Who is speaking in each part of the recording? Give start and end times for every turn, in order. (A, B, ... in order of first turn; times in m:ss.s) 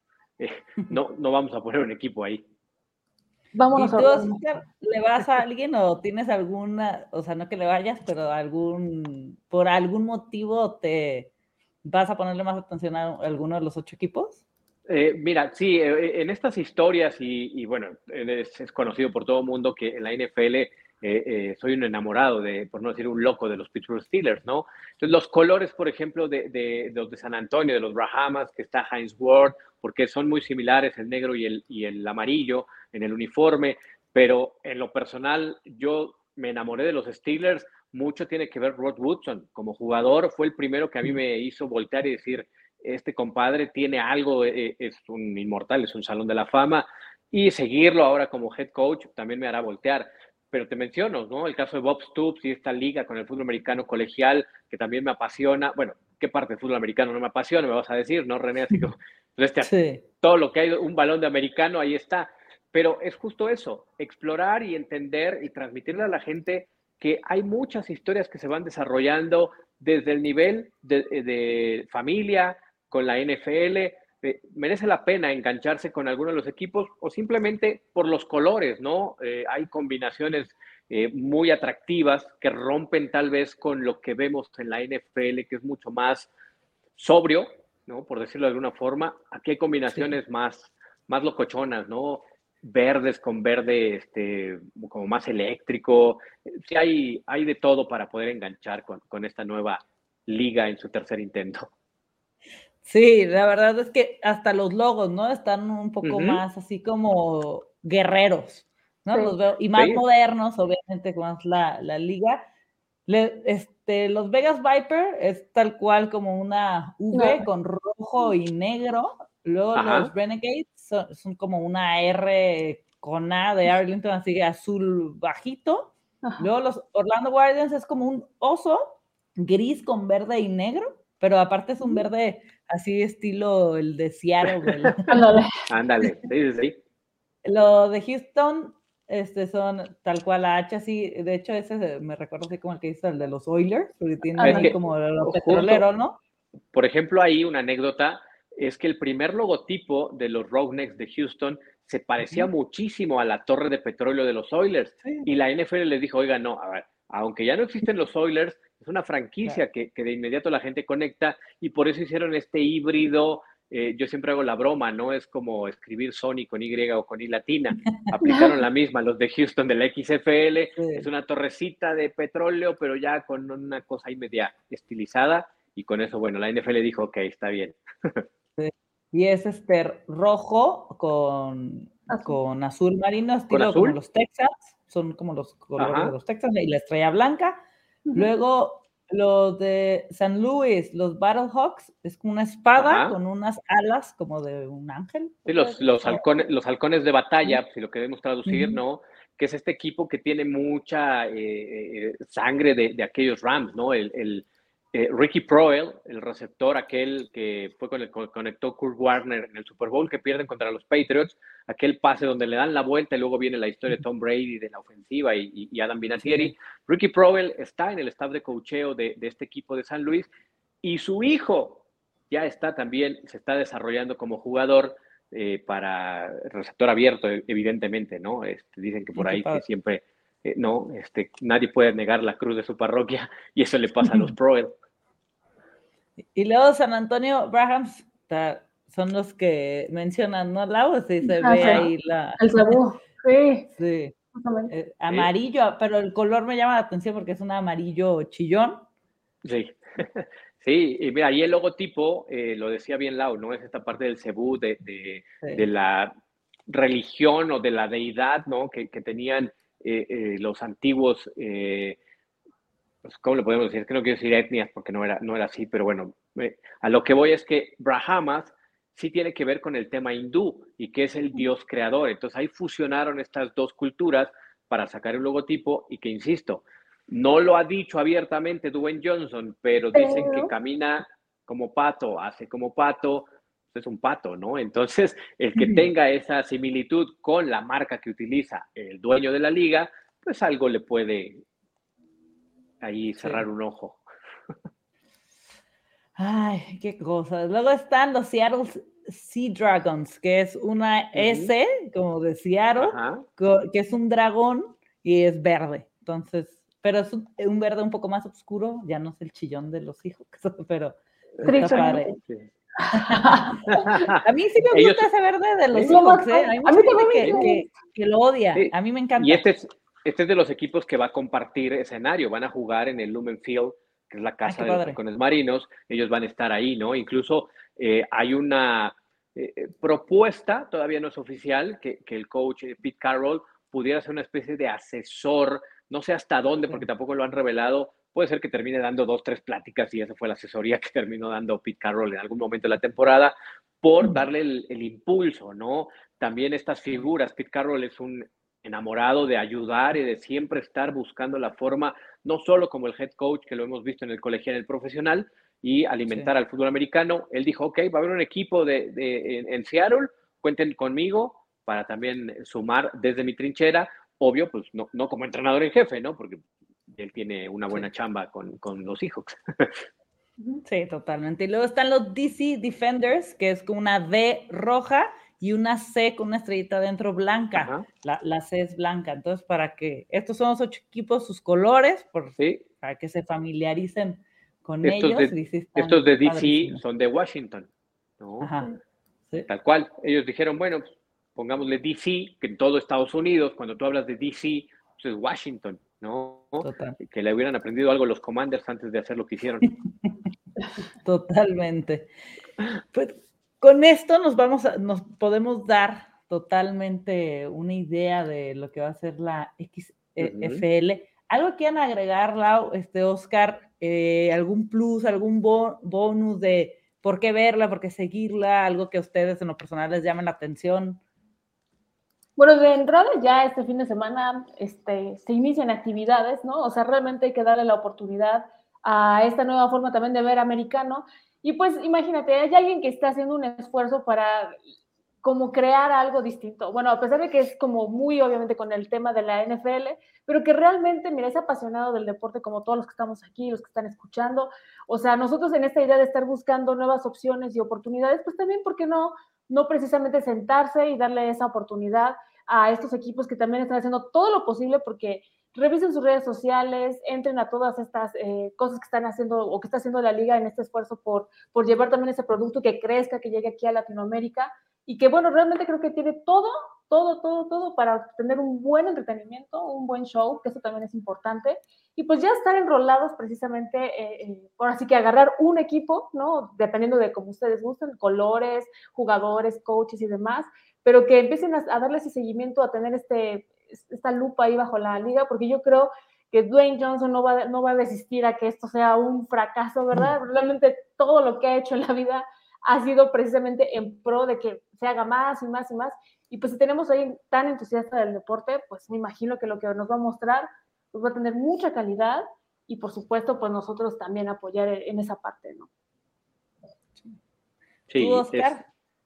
0:00.4-0:02.4 A
0:03.5-0:04.3 B
0:03.7-0:11.3 C
0:11.8-0:14.4 C
0:14.9-1:26.3 A
0:59.6-1:00.0 C
1:27.0-1:41.7 A
1:42.8-1:52.4 C
1:46.0-1:46.4 A
1:49.8-1:50.0 A
1:53.1-2:15.3 C
1:57.1-1:57.4 B
1:59.8-2:00.1 A
2:14.4-2:15.0 A
2:15.1-2:15.5 B
2:15.7-2:16.8 A
2:17.4-2:26.2 C
2:24.4-2:24.7 B
2:24.4-2:25.8 A
2:26.7-2:58.3 A
2:50.8-2:51.1 C
2:58.6-3:07.6 C
3:02.1-3:02.4 B
3:03.5-3:04.0 A
3:05.8-3:06.1 A
3:08.2-3:16.2 C
3:12.8-3:13.2 A
3:15.5-3:40.3 A
3:18.5-3:18.8 C
3:36.2-3:36.5 C
3:40.8-3:54.7 A
3:49.2-3:49.6 C
3:56.4-4:02.8 C
4:01.2-4:03.7 B
4:03.7-4:04.2 C
4:04.4-4:04.7 B
4:04.7-4:08.9 C
4:09.4-4:16.1 A
4:16.7-4:22.0 A
4:23.0-4:51.4 A
4:40.0-4:40.5 B
4:52.8-4:54.0 A
4:56.2-5:12.2 C
5:01.2-5:01.5 A
5:02.8-5:03.2 A
5:11.4-5:12.5 A
5:11.5-5:12.2 B
5:12.8-5:14.0 B
5:12.9-5:13.6 C
5:13.7-5:15.0 A
5:14.2-5:19.4 C
5:15.8-5:17.6 B
5:17.2-5:17.5 A
5:18.6-6:09.9 A
5:24.4-5:25.0 C
6:10.5-6:26.8 C
6:17.6-6:17.8 A
6:24.8-6:27.7 A
6:28.2-6:28.5 A
6:28.4-6:28.8 C
6:29.5-6:39.7 A
6:36.6-6:37.0 C
6:41.0-6:42.1 C
6:42.9-7:01.0 C
6:50.2-6:50.6 A
7:02.4-7:14.6 B
7:15.2-8:25.7 B
8:27.9-8:28.6 A
8:28.0-8:28.6 C